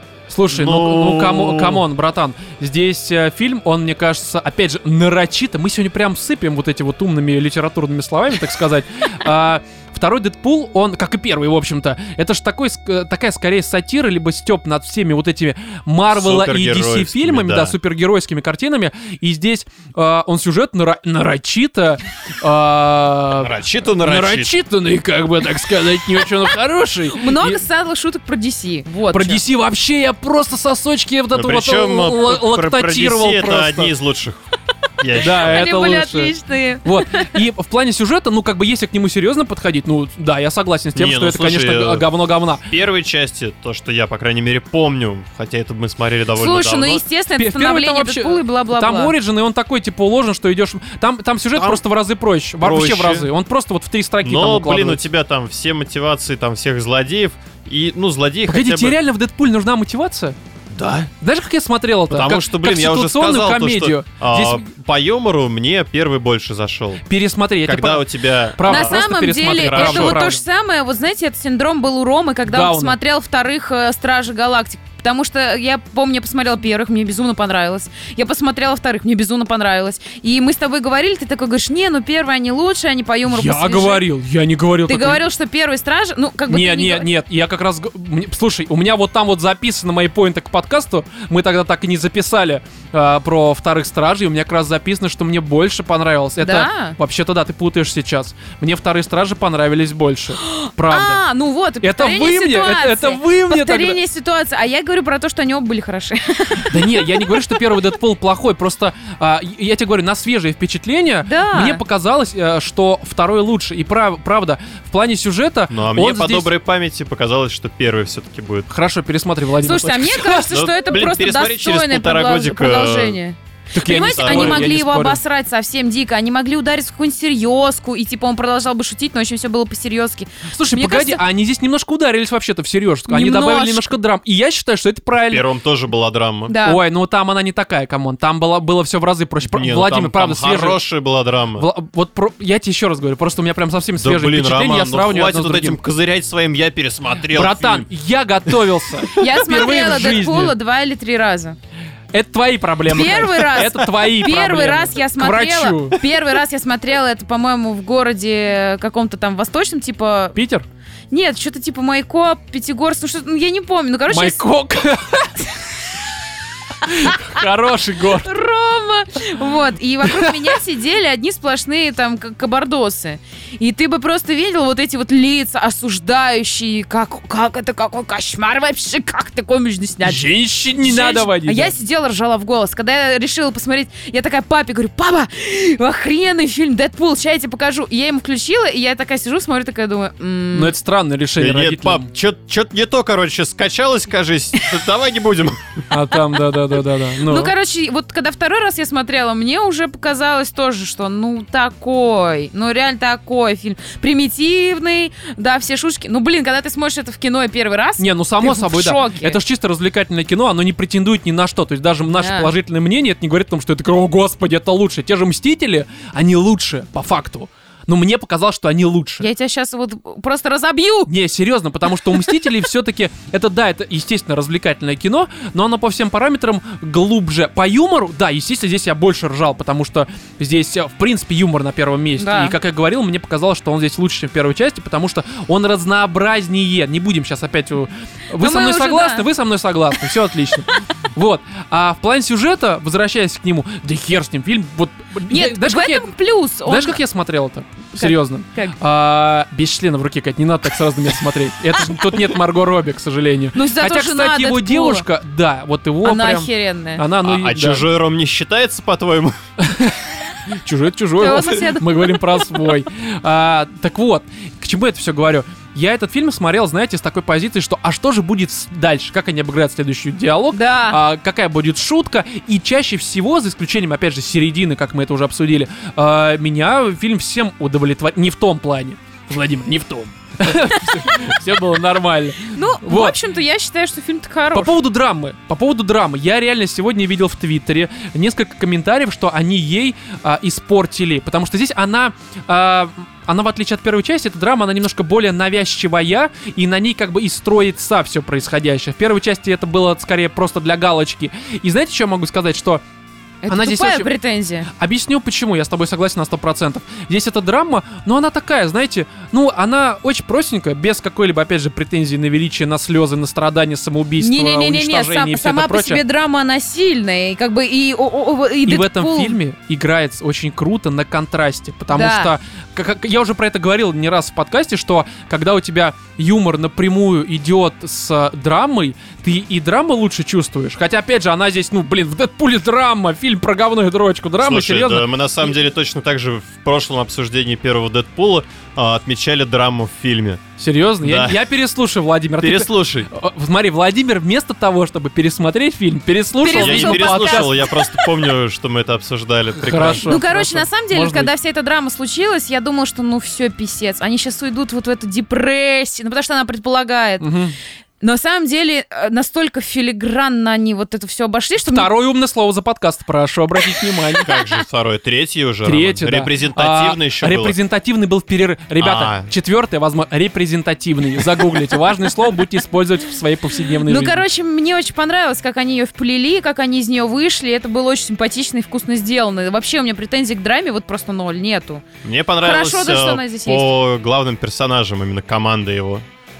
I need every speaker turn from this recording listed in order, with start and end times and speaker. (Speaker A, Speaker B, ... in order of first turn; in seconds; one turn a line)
Speaker A: 0.3-27.6
Speaker B: 0.5-1.9
Speaker B: 16.1-17.8
Speaker B: 23.4-24.5
Speaker C: 27.1-29.4
Speaker A: 29.1-33.9
Speaker B: 31.3-34.4
Speaker B: 35.0-35.6
Speaker A: 35.2-42.6
Speaker C: 35.2-37.4
Speaker B: 41.0-42.1
Speaker B: 42.7-47.0
Speaker C: 46.4-49.1
Speaker A: 47.4-55.0
Speaker B: 51.6-51.8
Speaker B: 52.6-53.3
Speaker B: 54.2-59.0
Speaker A: 58.5-60.4
Speaker B: 60.7-61.1
Speaker A: 61.2-64.6
Speaker B: 62.1-67.0
Speaker A: 67.1-70.4
Speaker B: 67.7-69.1
Speaker C: 68.6-84.1
Speaker B: 69.6-70.2
Speaker A: 72.5-73.0
Speaker A: 83.3-85.2
Speaker C: 84.9-87.1
Speaker A: 86.5-101.2
Speaker C: 96.4-97.0
Speaker C: 100.4-107.6
Speaker A: 101.8-104.0
Speaker A: 106.7-116.5
Speaker C: 111.2-111.8
Speaker B: 115.7-118.7
Speaker A: 118.7-120.6
Speaker C: 119.6-131.2
Speaker B: 120.5-123.2
Speaker A: 123.7-125.2
Speaker B: 124.0-124.7
Speaker A: 130.5-135.4
Speaker C: 133.1-133.9
Speaker B: 135.2-136.6
Speaker C: 136.5-136.8
Speaker A: 136.6-140.8
Speaker B: 139.4-141.7
Speaker A: 141.6-145.8
Speaker B: 144.0-147.9
Speaker A: 147.3-150.6
Speaker C: 149.2-151.6
Speaker A: 152.1-156.0
Speaker C: 152.9-160.4
Speaker A: 160.3-160.7
Speaker C: 161.1-164.4
Speaker A: 164.1-165.5
Speaker A: 166.8-168.3
Speaker C: 166.9-167.4
Speaker C: 168.1-190.7
Speaker A: 170.0-170.6
Speaker A: 180.0-181.7
Speaker A: 190.5-192.1
Speaker B: 191.4-195.8
Speaker A: 195.9-197.5
Speaker C: 197.2-209.4
Speaker A: 208.0-219.3
Speaker C: 212.1-212.5
Speaker C: 219.2-221.1
Speaker A: 221.1-246.1
Speaker C: 232.2-232.6
Speaker C: 238.4-239.3
Speaker C: 245.3-247.0
Speaker A: 246.7-257.9
Speaker C: 248.0-248.8
Speaker C: 253.6-255.1
Speaker C: 256.0-257.0
Speaker B: 257.2-259.4
Speaker A: 259.6-283.2
Speaker C: 261.2-262.7
Speaker C: 270.5-271.0
Speaker C: 282.6-284.7
Speaker A: 284.5-302.8
Speaker C: 303.4-304.7
Speaker A: 303.5-304.1
Speaker A: 304.7-316.0
Speaker C: 314.2-319.4
Speaker A: 318.7-335.1
Speaker C: 321.9-322.3
Speaker B: 334.4-340.4
Speaker A: 340.6-347.7
Speaker B: 341.0-341.4
Speaker B: 342.4-343.1
Speaker C: 346.4-347.8
Speaker B: 346.5-350.1
Speaker A: 349.6-351.3
Speaker C: 350.0-357.3
Speaker A: 357.2-357.6
Speaker C: 358.0-361.9
Speaker A: 361.6-364.3
Speaker C: 363.7-364.6
Speaker B: 364.2-367.6
Speaker A: 365.6-374.2
Speaker B: 368.8-369.3
Speaker C: 373.9-381.8
Speaker B: 382.0-386.1
Speaker C: 382.4-383.7